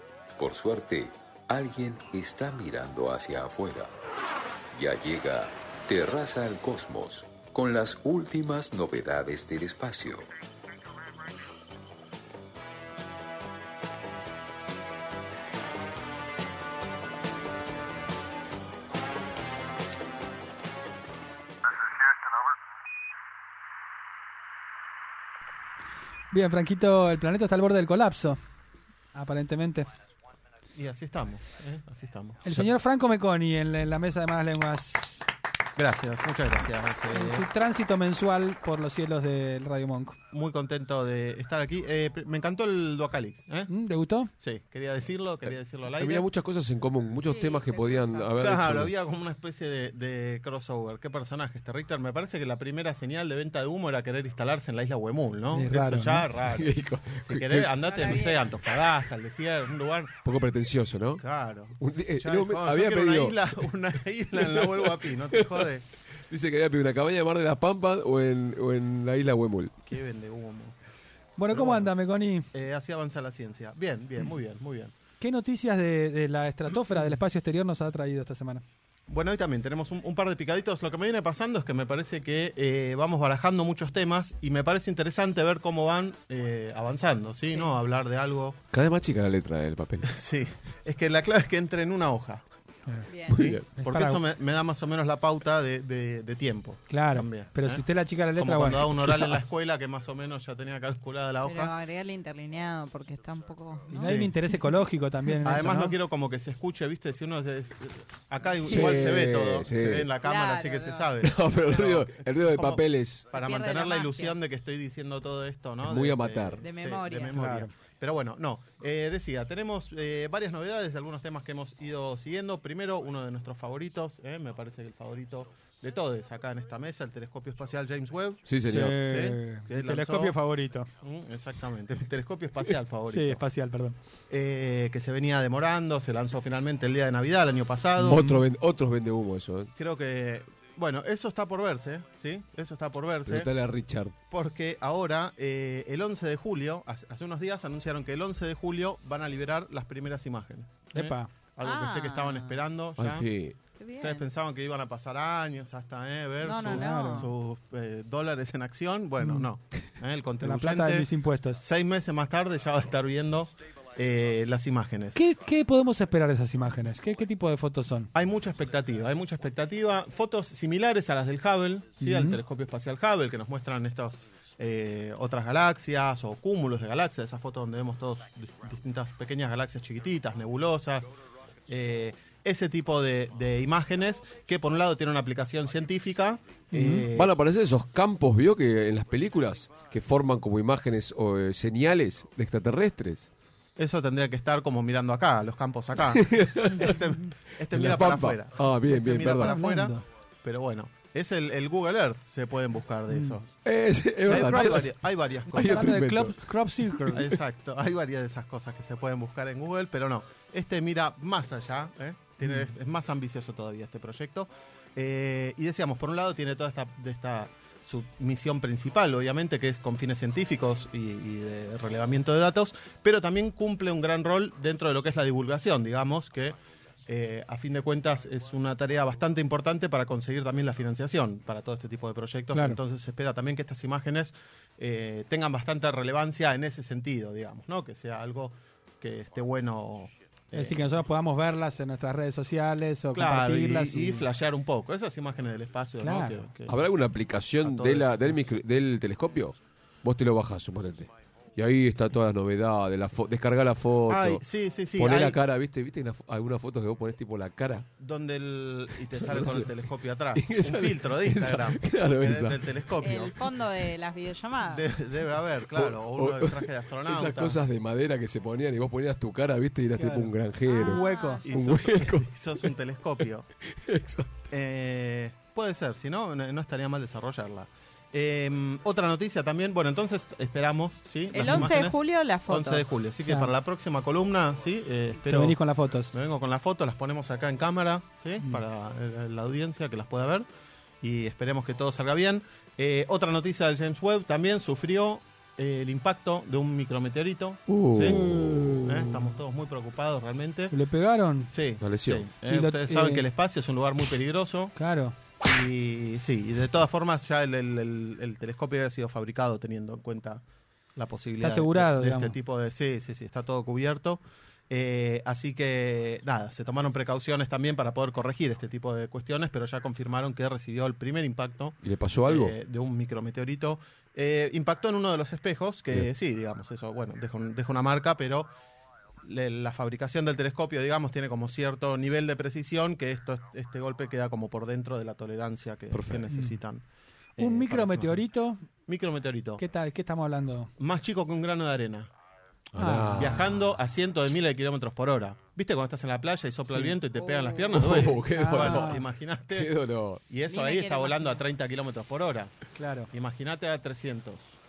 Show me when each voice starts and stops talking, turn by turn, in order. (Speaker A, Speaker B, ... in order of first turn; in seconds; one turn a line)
Speaker A: 0.4-3.9
Speaker A: 4.7-10.3
Speaker B: 26.3-28.4
Speaker B: 29.1-29.9
Speaker C: 30.8-32.4
Speaker B: 32.4-35.3
Speaker C: 35.8-37.5
Speaker B: 37.1-40.2
Speaker C: 40.3-43.7
Speaker B: 43.7-44.3
Speaker C: 44.4-46.3
Speaker D: 45.5-48.9
Speaker E: 47.1-48.4
Speaker C: 48.4-56.7
Speaker B: 55.5-56.3
Speaker D: 56.5-57.8
Speaker C: 57.2-60.2
Speaker E: 57.8-58.5
Speaker D: 60.2-61.2
Speaker C: 61.2-65.8
Speaker D: 61.8-63.7
Speaker D: 64.3-65.7
Speaker D: 66.3-69.7
Speaker C: 69.8-70.8
Speaker B: 71.4-72.5
Speaker C: 71.5-71.9
Speaker C: 72.5-75.0
Speaker B: 75.2-78.6
Speaker C: 79.1-88.6
Speaker D: 88.7-90.1
Speaker C: 90.0-92.4
Speaker B: 92.9-94.2
Speaker E: 93.1-93.4
Speaker C: 93.3-97.8
Speaker D: 93.4-93.6
Speaker B: 96.9-99.4
Speaker C: 98.4-101.8
Speaker E: 101.4-104.2
Speaker C: 103.9-104.3
Speaker B: 103.9-106.0
Speaker C: 105.4-130.3
Speaker E: 108.5-109.0
Speaker D: 108.6-110.1
Speaker E: 110.2-111.1
Speaker D: 111.2-113.3
Speaker E: 113.3-114.4
Speaker D: 115.8-116.6
Speaker E: 116.6-117.3
Speaker B: 117.3-117.7
Speaker D: 128.5-129.0
Speaker B: 128.7-130.9
Speaker C: 131.0-133.4
Speaker B: 133.1-134.0
Speaker C: 134.3-138.3
Speaker D: 138.0-139.7
Speaker B: 138.0-138.4
Speaker C: 139.8-143.5
Speaker D: 143.3-144.1
Speaker C: 144.3-153.3
Speaker B: 150.9-151.3
Speaker E: 151.6-152.6
Speaker D: 153.0-153.6
Speaker E: 153.8-154.3
Speaker C: 154.0-161.1
Speaker E: 156.4-157.3
Speaker B: 156.6-157.3
Speaker B: 159.2-159.5
Speaker B: 160.4-161.6
Speaker C: 161.6-165.2
Speaker B: 165.1-168.1
Speaker C: 168.1-181.1
Speaker B: 172.0-172.4
Speaker C: 181.7-187.3
Speaker B: 186.7-187.1
Speaker D: 187.1-193.3
Speaker C: 193.8-203.5
Speaker D: 196.1-197.0
Speaker D: 197.7-199.6
Speaker B: 199.3-200.1
Speaker B: 203.1-203.4
Speaker D: 203.6-205.0
Speaker C: 204.3-206.0
Speaker B: 204.3-204.9
Speaker B: 205.5-207.4
Speaker D: 205.5-206.4
Speaker C: 207.1-241.0
Speaker B: 212.4-212.7
Speaker B: 232.5-232.8
Speaker B: 240.5-244.3
Speaker C: 243.1-246.7
Speaker B: 246.0-246.3
Speaker D: 246.7-254.4
Speaker C: 247.6-248.3
Speaker C: 254.1-255.4
Speaker D: 255.0-257.9
Speaker C: 258.0-263.4
Speaker D: 259.1-259.7
Speaker D: 260.4-262.6
Speaker E: 263.0-264.9
Speaker C: 264.7-267.6
Speaker D: 265.7-272.7
Speaker B: 269.9-271.4
Speaker E: 270.7-271.5
Speaker C: 271.4-273.5
Speaker D: 273.8-274.3
Speaker C: 274.5-285.6
Speaker E: 281.3-282.9
Speaker B: 281.4-281.8
Speaker B: 283.2-283.5
Speaker B: 285.2-286.1
Speaker C: 286.1-290.5
Speaker C: 291.0-300.7
Speaker D: 297.7-298.7
Speaker B: 298.3-299.0
Speaker B: 300.7-301.5
Speaker C: 301.5-304.7
Speaker D: 301.8-302.3
Speaker B: 302.5-303.2
Speaker B: 304.8-305.2
Speaker C: 305.4-310.4
Speaker C: 311.0-328.5
Speaker B: 311.4-312.4
Speaker D: 321.8-322.6
Speaker C: 329.2-336.8
Speaker D: 335.9-336.2
Speaker B: 336.3-336.6
Speaker C: 337.4-338.2
Speaker B: 337.4-338.6
Speaker C: 338.9-339.6
Speaker B: 339.6-340.7
Speaker C: 340.8-342.1
Speaker D: 342.7-343.6
Speaker B: 342.8-343.4
Speaker C: 343.2-349.7
Speaker B: 346.7-347.0
Speaker D: 347.7-350.2
Speaker B: 348.2-349.1
Speaker C: 350.3-352.5
Speaker E: 350.5-351.4
Speaker B: 352.8-353.1
Speaker C: 353.1-354.5